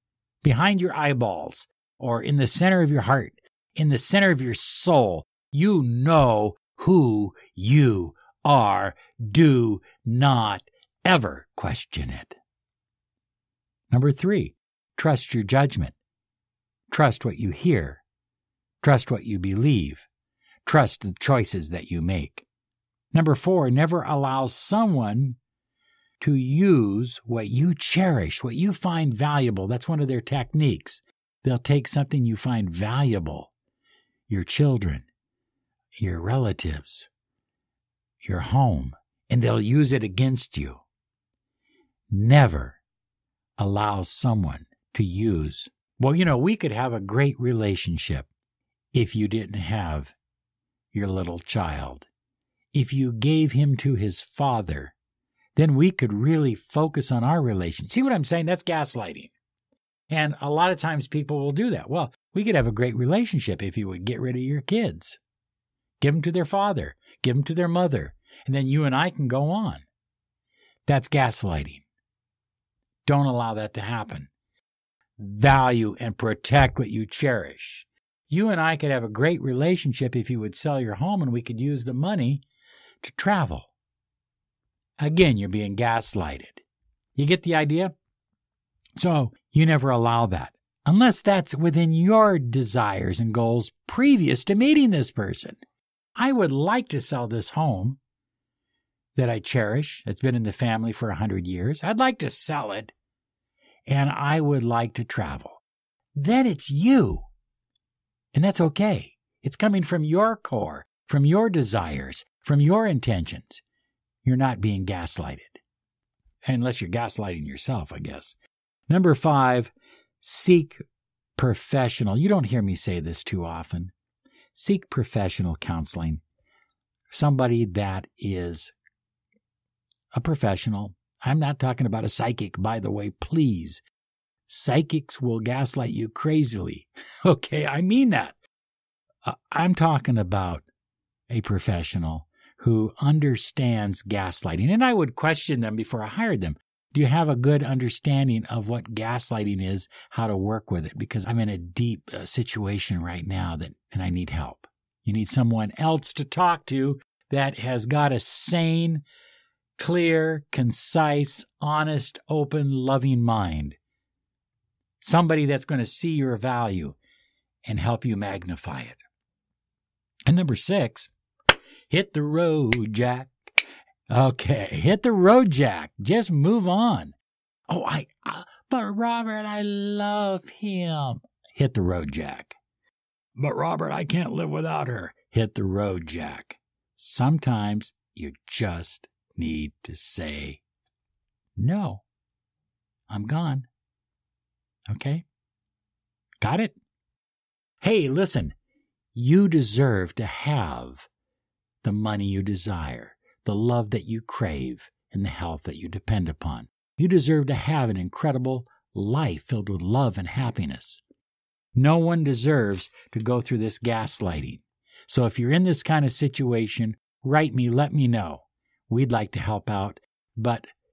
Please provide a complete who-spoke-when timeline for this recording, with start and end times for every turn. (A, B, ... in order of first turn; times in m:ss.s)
0:00.4-0:12.4 A
0:13.9-0:16.0 A
0:16.9-0:18.0 A
0:18.8-0:20.1 A
0:20.7-0:22.4 A
0:23.1-0:25.4 A
0:26.2-0:33.5 A
0:34.3-0:35.1 A
0:36.0-0:37.1 A
0:38.2-0:40.8 A
0:42.1-0:42.8 A
0:43.6-0:48.3 A
0:48.9-0:50.1 A
0:50.9-0:52.1 A
0:52.7-0:55.0 A
0:55.6-0:59.3 A
1:00.1-1:05.2 A
1:06.0-1:09.8 A
1:10.9-1:11.8 A
1:13.1-1:14.3 A
1:15.2-1:22.4 A
1:23.0-1:23.7 A
1:25.0-1:26.6 A
1:27.2-1:27.9 A
1:29.0-1:35.6 A
1:36.2-1:38.0 A
1:39.2-1:42.9 A
1:43.9-1:45.6 A
1:46.2-1:47.3 A
1:48.3-1:53.6 A
1:54.2-1:55.6 A
1:56.4-1:58.4 A
1:58.9-2:00.8 A
2:01.4-2:03.9 A
2:04.5-2:06.2 A
2:07.1-2:08.7 A
2:10.1-2:13.8 A
2:14.5-2:18.4 A
2:19.2-2:20.6 A
2:21.3-2:39.0 A
2:39.8-2:43.8 A
2:45.0-2:47.0 A
2:47.7-2:49.0 A
2:50.3-2:51.1 A
2:51.9-2:53.6 A
2:54.1-2:57.2 A
2:57.7-3:02.5 A
3:03.4-3:10.6 A
3:11.6-3:12.0 A
3:13.1-3:13.7 A
3:14.9-3:15.2 A
3:16.4-3:16.8 A
3:17.8-3:18.6 A
3:19.1-3:21.1 A
3:21.8-3:31.0 A
3:31.8-3:40.6 A